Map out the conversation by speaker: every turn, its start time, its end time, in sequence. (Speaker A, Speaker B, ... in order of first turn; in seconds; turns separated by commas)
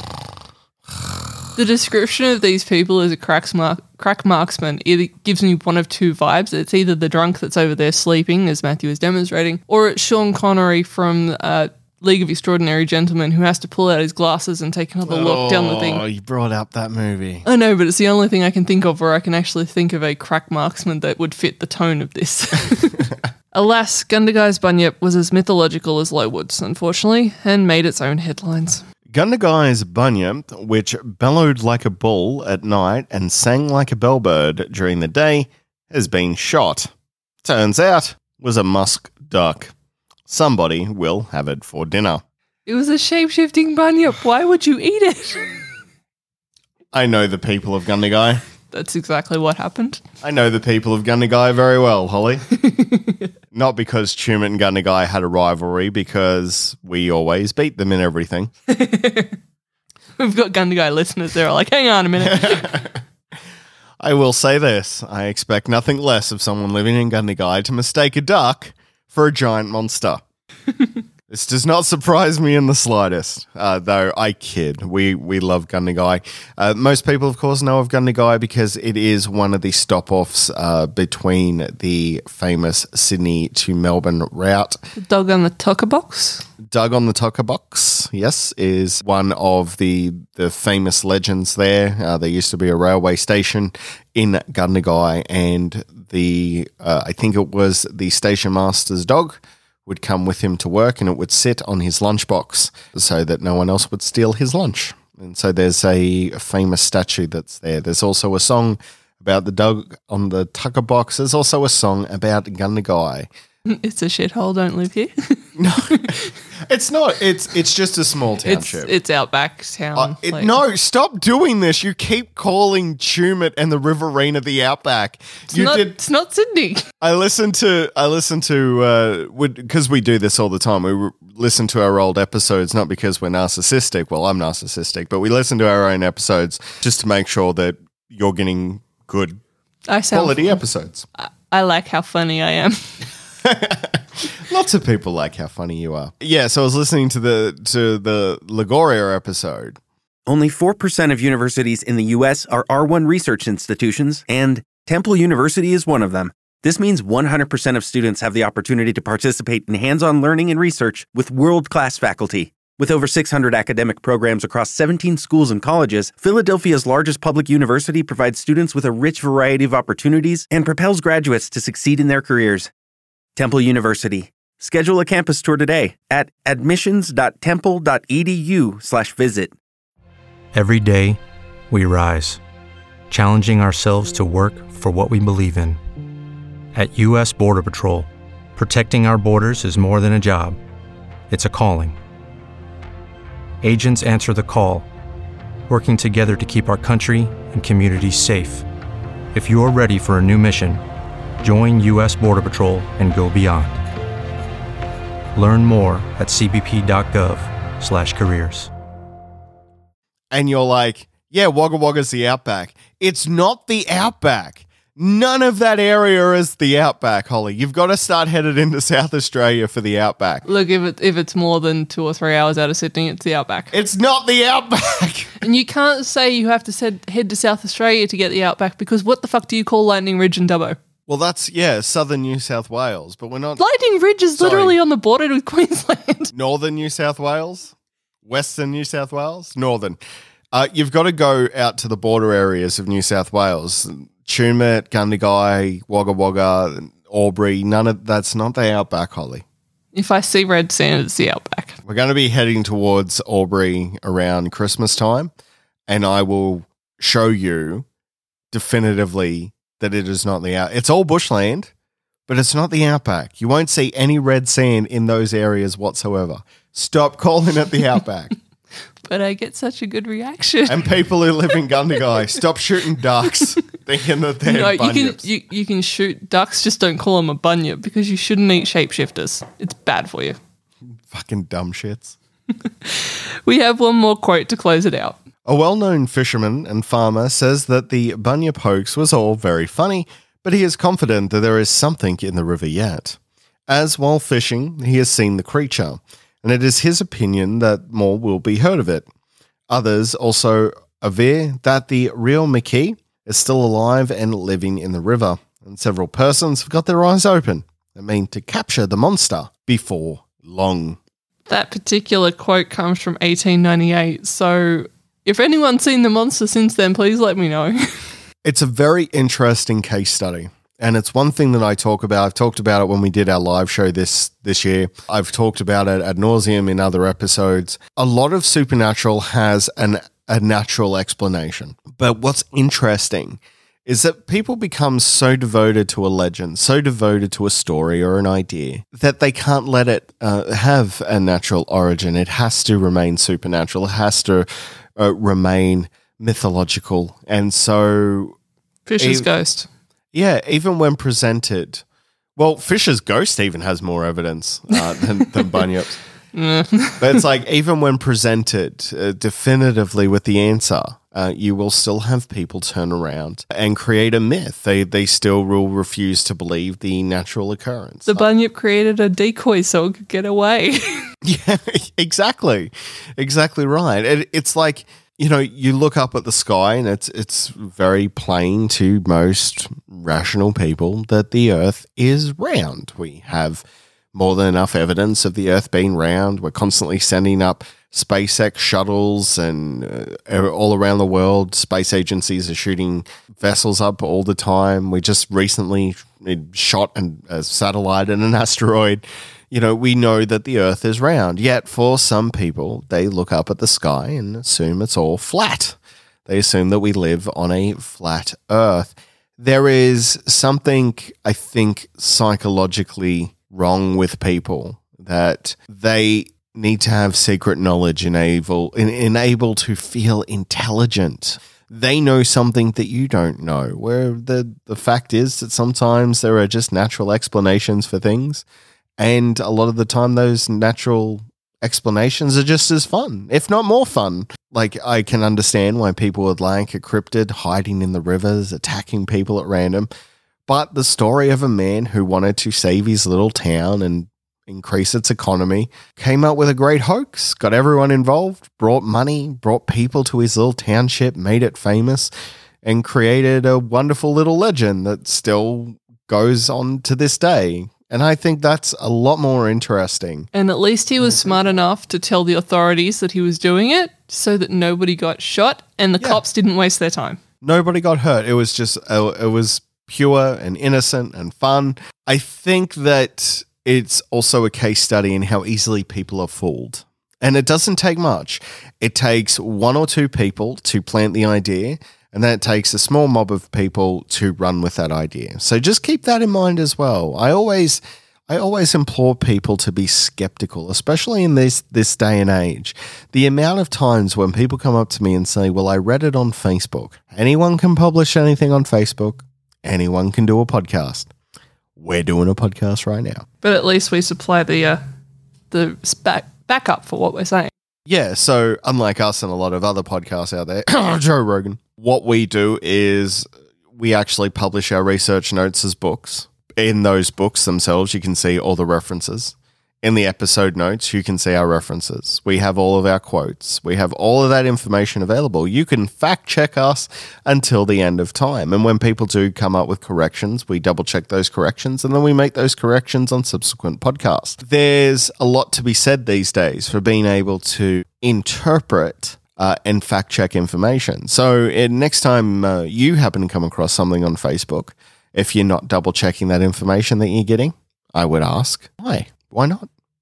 Speaker A: 1.6-16.1, Speaker B: 15.0-17.4, Speaker A: 17.4-28.8, Speaker B: 29.1-36.9, Speaker B: 37.4-39.7, Speaker B: 40.3-42.2, Speaker A: 42.6-45.5, Speaker B: 46.9-48.4, Speaker A: 48.7-50.0, Speaker B: 50.2-52.4, Speaker A: 52.6-53.3, Speaker B: 53.5-58.5, Speaker A: 58.7-59.4, Speaker A: 60.2-62.8, Speaker B: 62.2-63.0, Speaker B: 64.0-70.2, Speaker A: 70.7-71.0, Speaker B: 71.3-84.8, Speaker A: 85.0-86.5, Speaker B: 86.7-113.3, Speaker A: 113.7-116.3, Speaker B: 115.5-116.2, Speaker B: 116.7-118.9, Speaker A: 118.4-120.6, Speaker B: 119.9-126.0, Speaker A: 125.5-126.9, Speaker B: 127.0-139.4, Speaker A: 139.9-140.6, Speaker B: 140.1-141.1, Speaker A: 141.2-143.1, Speaker B: 143.4-149.8, Speaker C: 150.3-172.7, Speaker C: 173.3-179.6, Speaker D: 180.5-181.2, Speaker D: 181.7-182.4, Speaker D: 183.1-185.8, Speaker D: 186.7-190.6, Speaker D: 191.3-191.9, Speaker D: 193.6-194.8, Speaker D: 195.7-198.7, Speaker D: 199.3-200.8, Speaker D: 201.4-203.8, Speaker D: 205.3-208.7, Speaker B: 210.3-220.4, Speaker A: 220.4-223.7, Speaker B: 223.7-225.4, Speaker A: 225.4-230.8, Speaker B: 231.1-233.6, Speaker A: 233.6-236.3, Speaker B: 234.3-234.8, Speaker B: 236.3-237.7, Speaker B: 238.2-240.0, Speaker B: 240.5-249.4, Speaker A: 249.9-251.8, Speaker B: 251.8-255.3, Speaker B: 255.9-257.9, Speaker B: 258.5-261.7, Speaker B: 262.3-268.3, Speaker A: 269.0-270.9, Speaker B: 270.7-275.2, Speaker A: 274.4-280.4, Speaker B: 281.1-282.1, Speaker A: 282.5-285.2, Speaker B: 285.4-299.1, Speaker B: 299.7-311.0, Speaker A: 311.5-318.2, Speaker B: 318.4-348.4, Speaker A: 348.9-349.7, Speaker B: 349.0-349.3, Speaker B: 350.1-351.8, Speaker B: 352.4-355.9, Speaker A: 354.7-355.6, Speaker A: 356.3-357.2, Speaker B: 357.0-368.3, Speaker A: 368.1-371.1, Speaker B: 371.2-428.4, Speaker B: 429.0-439.9, Speaker B: 440.5-452.1, Speaker B: 452.6-460.3, Speaker A: 460.3-467.2, Speaker B: 461.0-461.5, Speaker B: 467.4-501.1, Speaker B: 501.8-503.2, Speaker A: 503.4-504.8, Speaker A: 505.5-507.5, Speaker B: 507.9-549.7